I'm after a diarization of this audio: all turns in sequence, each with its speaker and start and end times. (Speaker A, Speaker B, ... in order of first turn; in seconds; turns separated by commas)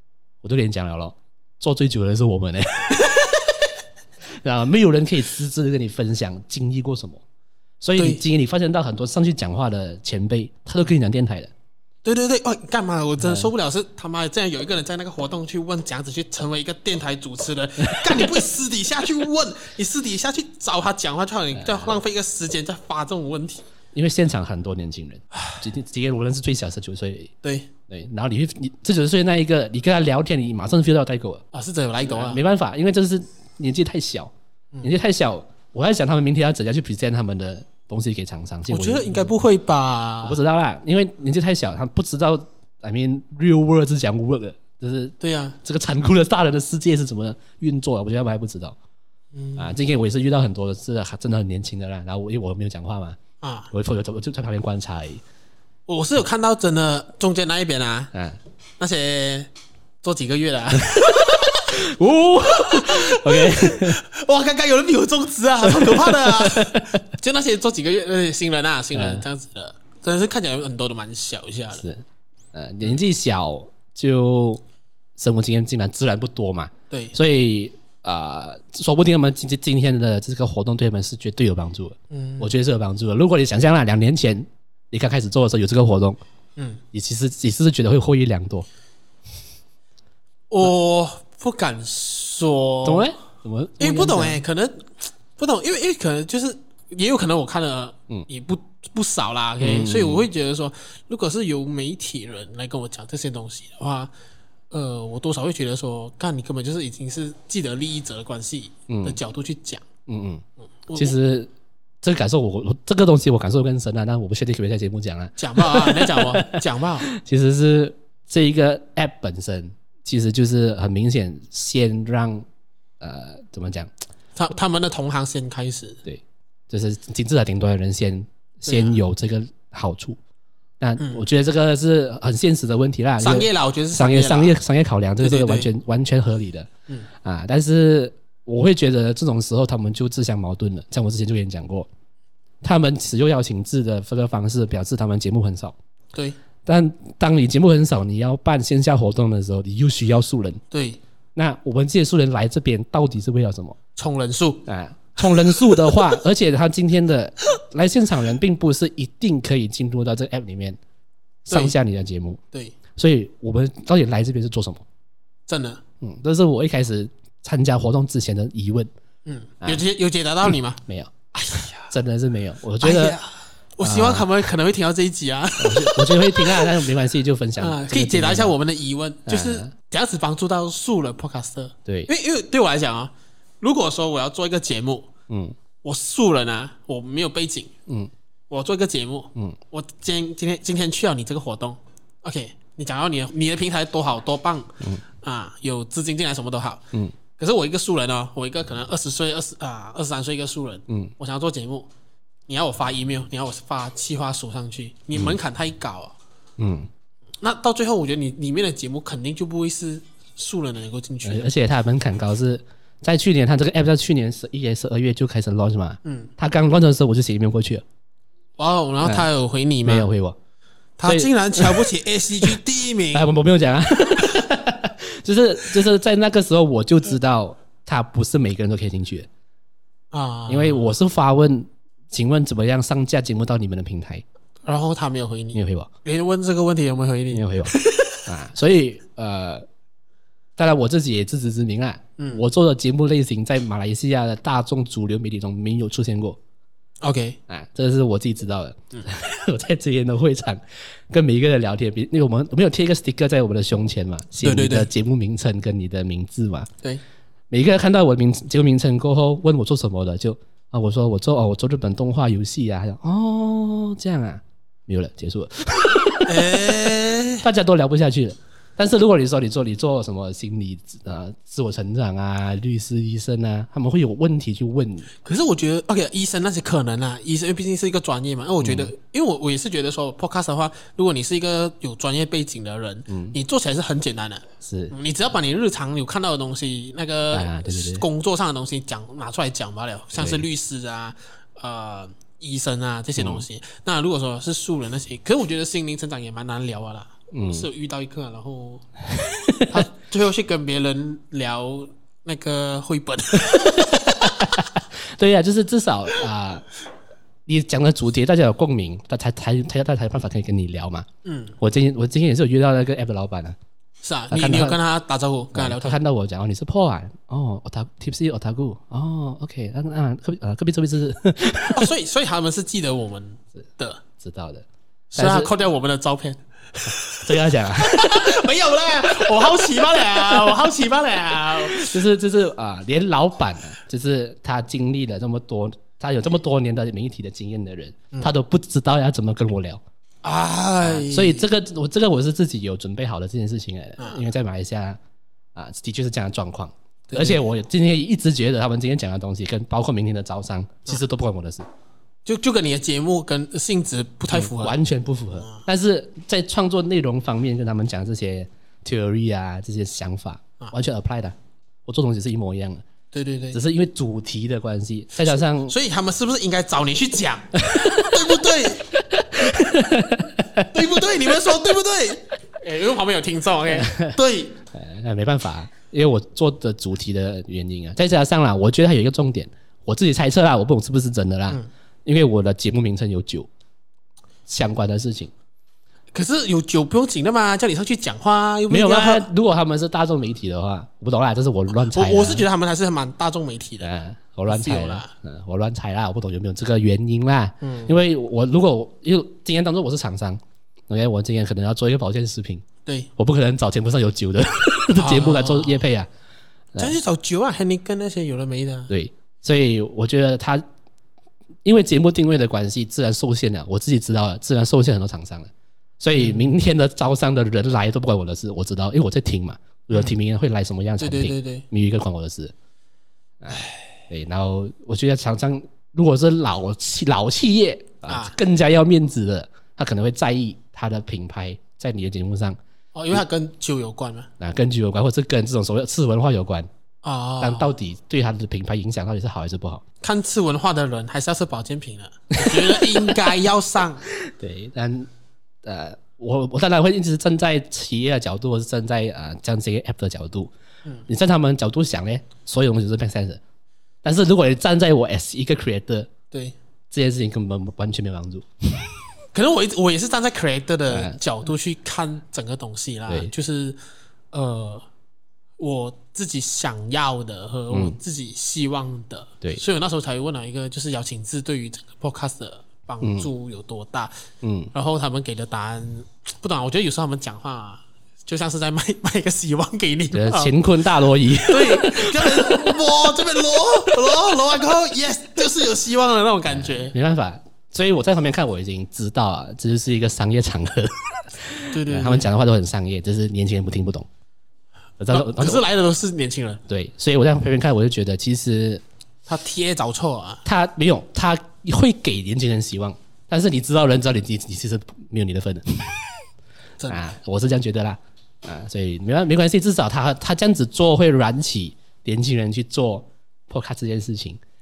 Speaker A: 0.4-3.3, Speaker A: 4.4-7.2, Speaker A: 7.8-11.5, Speaker B: 8.0-8.2, Speaker B: 12.1-23.6, Speaker A: 13.2-13.5, Speaker A: 17.9-18.3, Speaker A: 21.6-21.9, Speaker A: 23.9-27.3, Speaker B: 27.4-27.7, Speaker A: 27.9-31.4, Speaker B: 31.5-32.4, Speaker A: 32.0-34.3, Speaker A: 34.8-39.3, Speaker B: 38.7-40.4, Speaker A: 40.2-48.8, Speaker B: 45.2-45.6, Speaker B: 49.3-49.8, Speaker A: 49.6-53.2, Speaker B: 53.4-53.7, Speaker A: 53.7-55.2, Speaker B: 55.9-58.1, Speaker A: 58.1-58.4, Speaker B: 58.8-59.5, Speaker B: 60.0-61.7, Speaker A: 60.9-64.0, Speaker B: 62.5-71.9, Speaker A: 65.6-66.9, Speaker A: 68.9-69.2, Speaker A: 71.8-74.6, Speaker A: 75.2-86.2, Speaker B: 76.9-77.2, Speaker B: 82.1-82.5, Speaker B: 86.6-86.8, Speaker A: 86.9-88.7, Speaker B: 90.5-93.1, Speaker A: 92.8-94.4, Speaker B: 93.8-104.1, Speaker A: 99.6-100.3, Speaker B: 104.7-109.8, Speaker A: 108.9-109.2, Speaker A: 110.1-111.5, Speaker B: 110.9-111.1, Speaker A: 112.0-122.5, Speaker B: 115.4-117.1, Speaker A: 123.0-123.9, Speaker B: 124.4-126.0, Speaker A: 126.0-130.2, Speaker B: 128.7-129.0, Speaker A: 130.8-136.7, Speaker B: 131.0-131.2, Speaker B: 133.2-134.6, Speaker B: 135.2-135.7, Speaker A: 137.2-141.9, Speaker A: 142.6-145.8, Speaker A: 146.7-150.6, Speaker B: 150.7-151.0, Speaker A: 151.3-153.8, Speaker B: 154.0-154.7, Speaker A: 154.7-160.8, Speaker B: 155.2-156.1, Speaker A: 161.4-162.4, Speaker B: 161.5-161.8, Speaker A: 163.0-164.8, Speaker B: 165.5-165.8, Speaker A: 166.0-168.9, Speaker B: 169.3-170.8, Speaker A: 170.5-173.2, Speaker B: 171.3-171.9, Speaker B: 172.8-176.7, Speaker A: 173.8-174.3, Speaker A: 175.6-178.5, Speaker B: 177.6-185.1, Speaker A: 179.3-179.7, Speaker A: 185.3-185.6, Speaker B: 185.8-187.7, Speaker B: 188.5-201.9, Speaker B: 202.5-206.2, Speaker A: 206.6-206.9, Speaker B: 207.4-211.5, Speaker A: 211.2-217.8, Speaker B: 216.1-216.3, Speaker B: 218.6-220.1, Speaker A: 219.0-219.3, Speaker A: 219.8-220.4, Speaker B: 221.0-223.3, Speaker A: 221.1-221.9, Speaker A: 223.1-229.3, Speaker B: 230.1-231.0, Speaker A: 230.5-234.2, Speaker B: 234.7-238.3, Speaker A: 235.5-235.9, Speaker A: 237.3-237.7, Speaker A: 238.3-239.7, Speaker A: 240.6-246.4, Speaker B: 242.2-242.4, Speaker B: 247.0-247.4, Speaker A: 247.5-256.7, Speaker B: 254.4-254.9, Speaker A: 257.5-266.9, Speaker B: 266.2-267.5, Speaker A: 267.4-275.1, Speaker B: 275.2-298.9, Speaker A: 278.6-278.9, Speaker A: 283.1-283.4, Speaker A: 284.6-284.9, Speaker A: 287.3-288.1, Speaker A: 290.2-290.4, Speaker A: 293.2-293.4, Speaker A: 297.3-297.7, Speaker A: 299.1-299.9, Speaker B: 299.7-304.7, Speaker A: 303.5-306.7, Speaker A: 307.5-311.1, Speaker B: 311.2-311.6, Speaker A: 311.6-313.6, Speaker B: 314.0-316.0, Speaker A: 314.3-314.8, Speaker A: 315.5-321.9, Speaker B: 321.7-324.0, Speaker A: 324.2-324.6, Speaker B: 325.1-331.9, Speaker A: 325.2-325.5, Speaker A: 327.2-328.4, Speaker A: 329.2-330.6, Speaker A: 331.7-339.8, Speaker B: 340.2-341.5, Speaker A: 340.8-345.0, Speaker B: 344.0-344.2, Speaker A: 345.6-351.7, Speaker B: 347.1-347.4, Speaker B: 352.2-354.8, Speaker A: 354.3-362.8, Speaker B: 363.1-363.6, Speaker A: 363.5-365.8, Speaker B: 365.2-368.9, Speaker A: 367.6-368.4, Speaker A: 368.9-370.7, Speaker B: 370.7-374.6, Speaker A: 373.7-374.2, Speaker A: 374.7-383.5, Speaker A: 384.5-385.3, Speaker B: 386.1-389.3, Speaker A: 388.7-392.5, Speaker B: 391.8-393.9, Speaker A: 393.8-402.6, Speaker B: 394.5-395.1, Speaker B: 397.6-398.0, Speaker A: 403.2-406.1, Speaker B: 404.9-405.9, Speaker B: 406.8-408.9, Speaker A: 408.9-410.6, Speaker A: 411.6-422.5, Speaker B: 416.1-416.6, Speaker B: 421.0-421.6, Speaker A: 423.4-432.6, Speaker B: 428.1-428.4, Speaker B: 432.9-434.3, Speaker A: 434.4-436.7, Speaker B: 437.0-437.7, Speaker A: 437.4-439.8, Speaker B: 440.0-444.1, Speaker A: 442.4-443.1, Speaker A: 444.1-445.1, Speaker A: 445.6-450.5, Speaker A: 451.1-453.4, Speaker A: 454.0-456.1, Speaker A: 456.9-458.9, Speaker B: 459.3-463.8, Speaker A: 460.9-461.2, Speaker B: 464.3-464.9, Speaker B: 465.6-474.1, Speaker A: 467.7-468.0, Speaker A: 473.0-473.3, Speaker A: 474.4-474.7, Speaker B: 474.7-480.6, Speaker A: 480.1-482.8, Speaker B: 481.4-486.9, Speaker A: 486.5-494.1, Speaker B: 491.7-492.3, Speaker A: 495.0-495.6, Speaker B: 495.1-496.6, Speaker A: 496.7-498.8, Speaker B: 499.3-500.4, Speaker A: 500.4-506.1, Speaker B: 506.8-507.1, Speaker A: 506.9-514.4